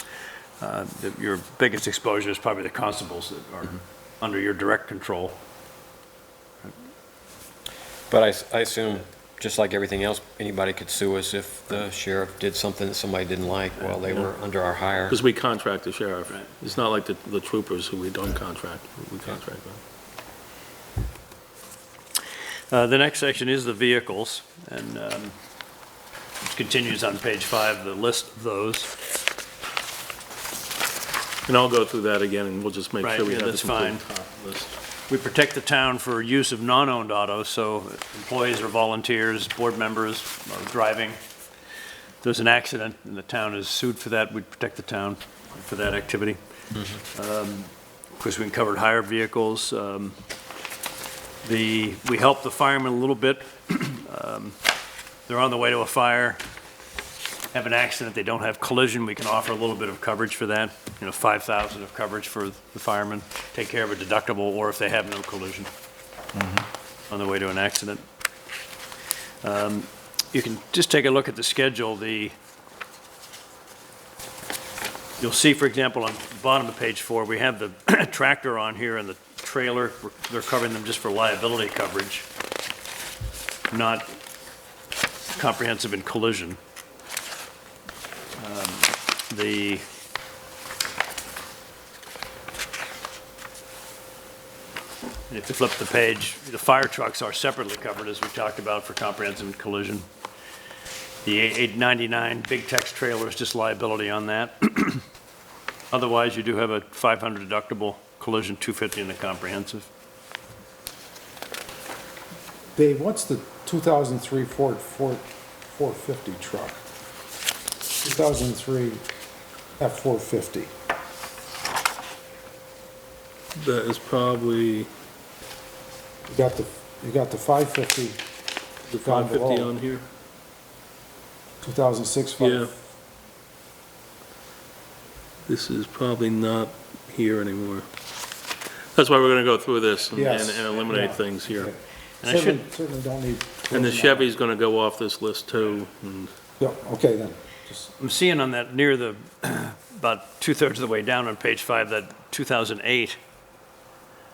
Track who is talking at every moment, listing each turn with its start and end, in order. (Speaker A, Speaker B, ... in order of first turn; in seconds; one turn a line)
Speaker A: 0.6-5.4
Speaker B: 8.1-15.2
Speaker A: 13.8-14.2
Speaker C: 15.1-19.8
Speaker A: 22.7-25.3
Speaker A: 26.4-28.9
Speaker C: 31.5-34.8
Speaker A: 33.0-34.0
Speaker A: 35.1-41.2
Speaker A: 42.2-46.4
Speaker B: 46.8-47.0
Speaker A: 47.1-50.2
Speaker A: 51.4-54.6
Speaker A: 55.3-56.4
Speaker A: 57.5-65.7
Speaker A: 67.1-68.0
Speaker A: 69.4-72.3
Speaker A: 75.2-82.2
Speaker A: 83.7-84.1
Speaker A: 85.3-86.6
Speaker A: 88.4-89.8
Speaker A: 95.3-100.0
Speaker A: 101.2-105.0
Speaker A: 105.9-109.9
Speaker D: 112.7-116.8
Speaker D: 118.0-119.0
Speaker D: 119.8-120.7
Speaker C: 123.5-124.9
Speaker D: 126.3-128.2
Speaker C: 128.9-130.0
Speaker D: 129.0-129.7
Speaker D: 131.6-132.7
Speaker C: 132.4-132.7
Speaker C: 135.5-137.9
Speaker C: 138.9-141.7
Speaker D: 140.1-144.3
Speaker A: 142.2-142.7
Speaker C: 143.7-146.3
Speaker D: 146.6-147.9
Speaker A: 148.0-153.2